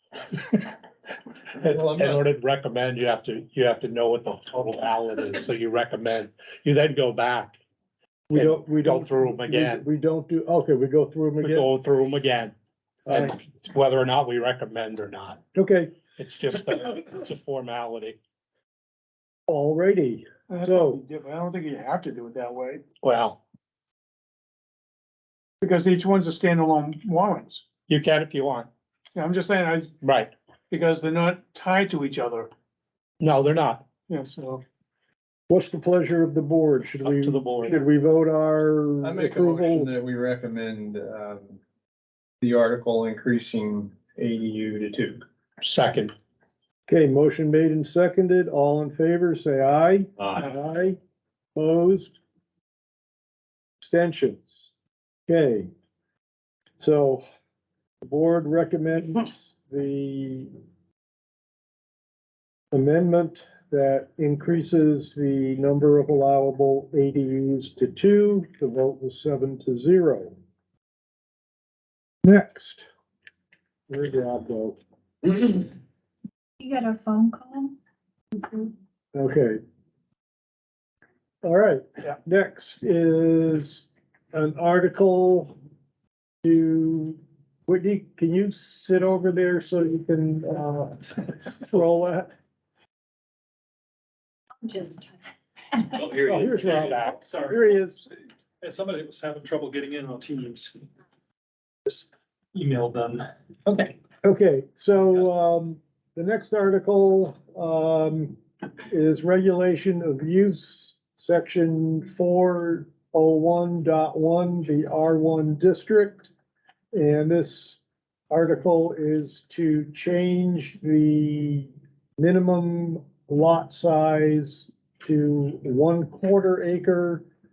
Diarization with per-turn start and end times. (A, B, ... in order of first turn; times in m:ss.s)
0:00.3-0:00.7 A
0:01.6-0:07.6 A
0:01.6-0:02.2 B
0:08.3-0:11.7 C
0:08.3-0:09.8 A
0:11.4-0:12.5 A
0:13.0-0:13.4 C
0:13.1-0:15.4 A
0:15.5-0:15.9 C
0:16.2-0:18.2 A
0:19.5-0:21.0 C
0:20.5-0:22.8 D
0:23.0-0:23.4 A
0:25.6-0:27.6 D
0:27.9-0:28.7 A
0:29.1-0:29.9 D
0:30.0-0:30.3 A
0:30.7-0:32.5 D
0:33.2-0:33.8 A
0:34.1-0:34.6 D
0:35.5-0:39.9 C
0:37.0-0:37.8 A
0:39.0-0:41.6 B
0:42.4-0:45.2 B
0:45.6-0:46.1 A
0:46.9-0:51.0 C
0:51.6-0:52.2 C
0:53.8-0:54.7 C
0:55.3-0:55.7 C
0:56.8-0:57.2 C
0:58.0-1:00.5 C
1:02.7-1:10.4 C
1:12.2-1:12.8 C
1:13.9-1:15.7 C
1:16.6-1:17.8 E
1:18.3-1:18.7 E
1:19.1-1:19.6 C
1:21.4-1:25.6 C
1:26.4-1:32.3 C
1:34.6-1:35.1 E
1:35.9-1:37.7 F
1:36.2-1:38.0 C
1:36.7-1:37.2 A
1:38.6-1:40.9 F
1:41.8-1:44.0 F
1:44.2-1:56.3 C
1:56.9-2:07.2 C